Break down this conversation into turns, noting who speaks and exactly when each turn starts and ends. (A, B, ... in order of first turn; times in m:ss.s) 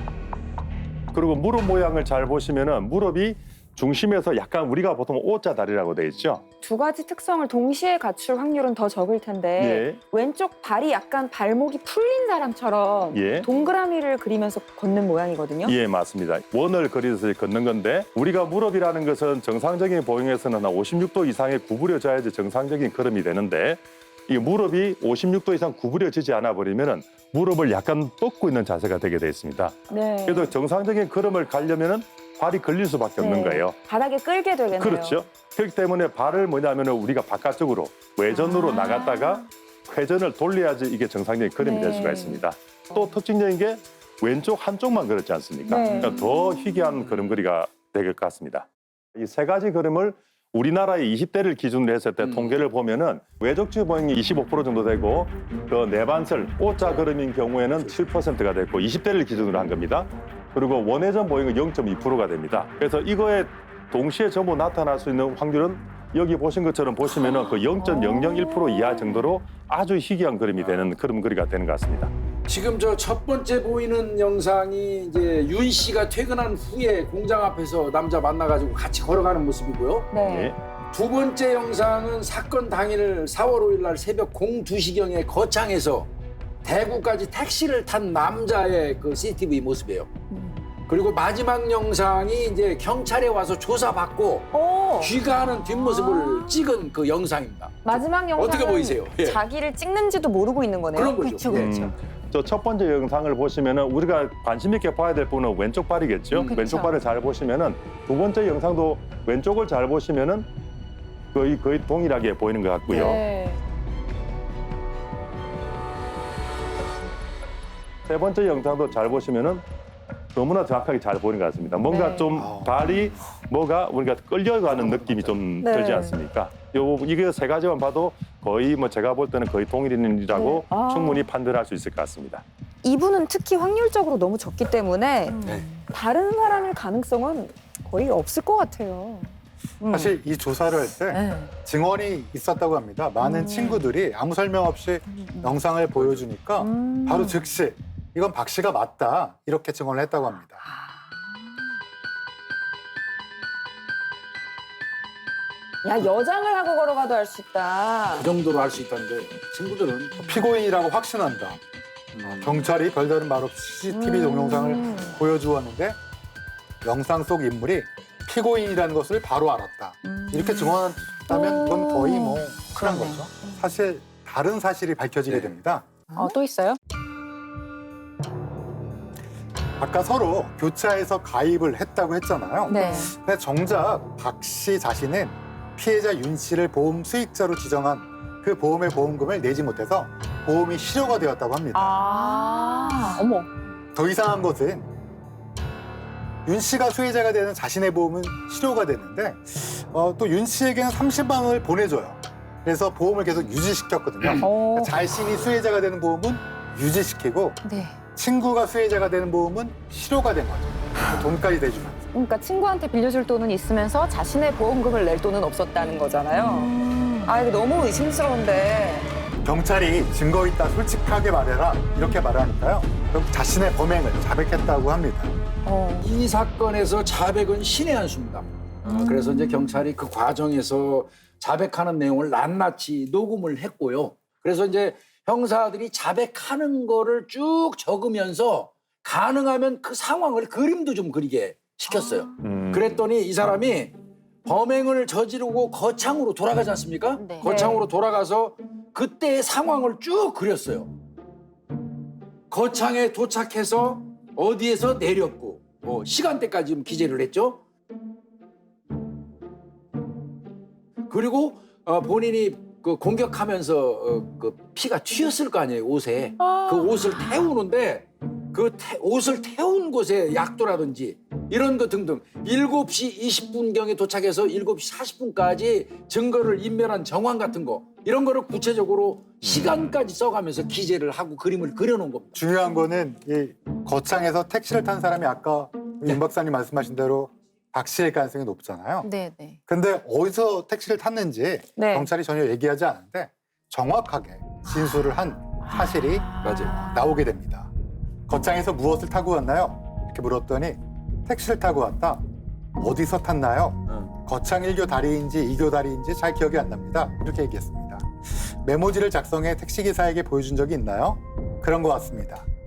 0:01.1-0:06.4 A
0:06.6-0:15.8 B
0:09.6-0:10.0 A
0:13.1-0:13.5 A
0:15.6-0:33.8 A
0:29.9-0:30.5 B
0:33.2-0:35.2 B
0:34.8-1:12.1 A
0:38.3-0:39.4 B
0:41.6-0:42.4 B
0:45.6-0:46.3 B
0:45.9-0:46.3 C
0:47.0-0:47.4 C
0:52.2-0:52.6 C
1:10.6-1:10.9 C
1:12.5-1:20.1 C
1:20.1-1:20.5 B
1:20.2-1:20.6 A
1:20.9-1:26.1 C
1:26.6-1:30.1 C
1:30.3-1:30.6 B
1:30.9-1:39.4 C
1:34.5-1:36.6 B
1:37.8-1:41.2 B
1:40.9-1:42.0 C
1:41.0-1:41.7 D
1:41.5-1:50.5 A
1:46.3-1:46.8 C
1:46.5-1:46.9 D
1:51.3-1:53.2 A
1:52.9-1:53.6 B
1:58.1-1:59.6 A
2:00.4-2:12.4 A
2:01.9-2:02.5 B
2:02.4-2:03.0 E
2:04.8-2:05.3 C
2:05.6-2:06.2 B
2:10.3-2:11.3 B
2:12.8-2:20.1 B
2:15.3-2:15.8 D
2:19.9-2:30.6 E
2:21.1-2:21.5 D
2:23.2-2:23.9 B
2:26.0-2:26.2 C
2:26.6-2:27.4 B
2:35.8-2:38.3 B
2:38.1-2:40.2 C
2:40.2-2:41.6 E
2:42.1-2:42.7 C
2:42.3-2:46.0 E
2:43.9-2:45.1 D
2:44.7-2:45.1 B
2:46.8-2:55.9 E
2:50.0-2:50.8 D
2:51.3-2:52.4 B
2:51.7-2:53.2 D
2:55.3-2:55.5 C
2:56.1-2:56.4 D
2:56.2-2:56.8 B
2:59.8-3:12.0 E
3:02.7-3:03.1 B
3:02.7-3:03.1 D
3:11.7-3:13.5 B
3:12.0-3:13.2 D
3:14.0-3:14.9 E
3:16.4-3:27.6 E
3:24.4-3:24.9 B
3:27.6-3:28.0 D
3:28.2-3:32.0 E
3:32.1-3:36.8 B
3:36.4-3:37.3 D
3:37.3-3:39.1 B
3:39.4-3:45.3 E
3:45.6-3:46.1 B
3:46.0-4:10.9 C
3:49.0-3:49.8 D
4:01.9-4:02.3 D
4:02.4-4:03.0 A
4:07.2-4:07.6 D
4:07.4-4:07.9 B
4:12.5-4:17.6 C
4:21.1-4:42.4 C
4:26.4-4:27.4 B
4:39.4-4:39.9 A
4:42.3-4:49.1 E
4:49.0-4:49.6 D
4:49.7-4:57.7 E
4:51.8-4:52.1 B
4:55.7-4:57.2 D
4:56.4-4:56.8 C
4:58.3-5:02.2 E
5:02.8-5:12.5 E